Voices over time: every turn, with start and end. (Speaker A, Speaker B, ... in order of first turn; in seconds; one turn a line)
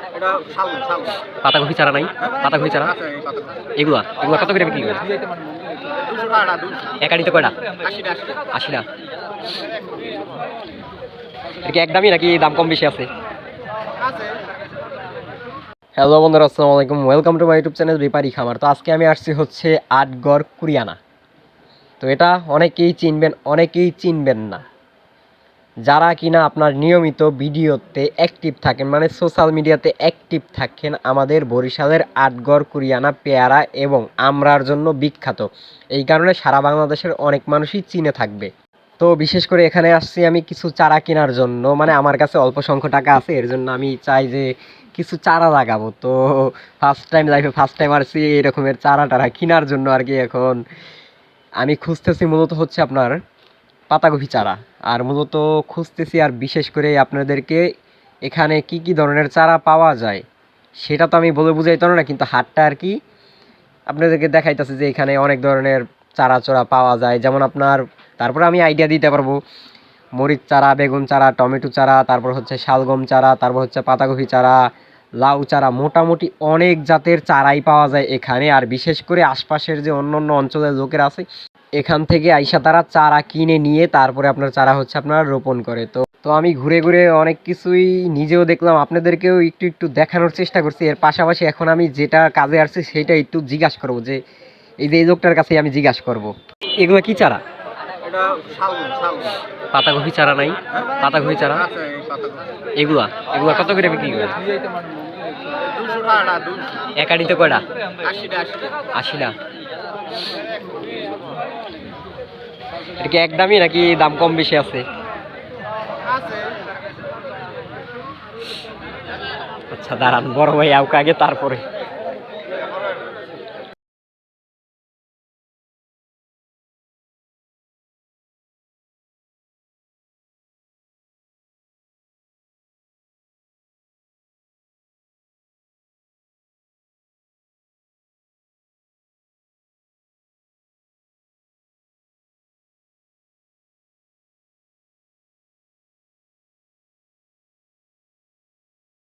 Speaker A: 0.1-1.0
Speaker B: 1.4-3.0
Speaker B: 3.8-5.1
Speaker A: 5.9-6.9
Speaker B: 7.0-7.5
Speaker A: 7.8-8.3
Speaker B: 8.5-8.9
Speaker B: 11.6-13.1
Speaker B: 16.0-21.0
Speaker B: 22.0-24.6
Speaker B: 25.9-50.6
Speaker B: 51.6-53.2
Speaker B: 53.9-57.6
Speaker B: 58.2-60.2
Speaker B: 60.8-63.0
Speaker B: 63.9-69.4
Speaker B: 70.2-74.6
Speaker B: 75.2-81.2
Speaker B: 81.8-94.2
Speaker B: 94.8-97.4
Speaker A: 98.0-99.3
Speaker B: 99.7-101.7
Speaker A: 101.8-102.4
Speaker B: 102.8-104.4
Speaker A: 105.7-106.7
Speaker B: 107.0-107.6
Speaker A: 108.1-108.7
Speaker B: 108.9-109.3
Speaker B: 113.0-114.8
Speaker B: 119.7-121.6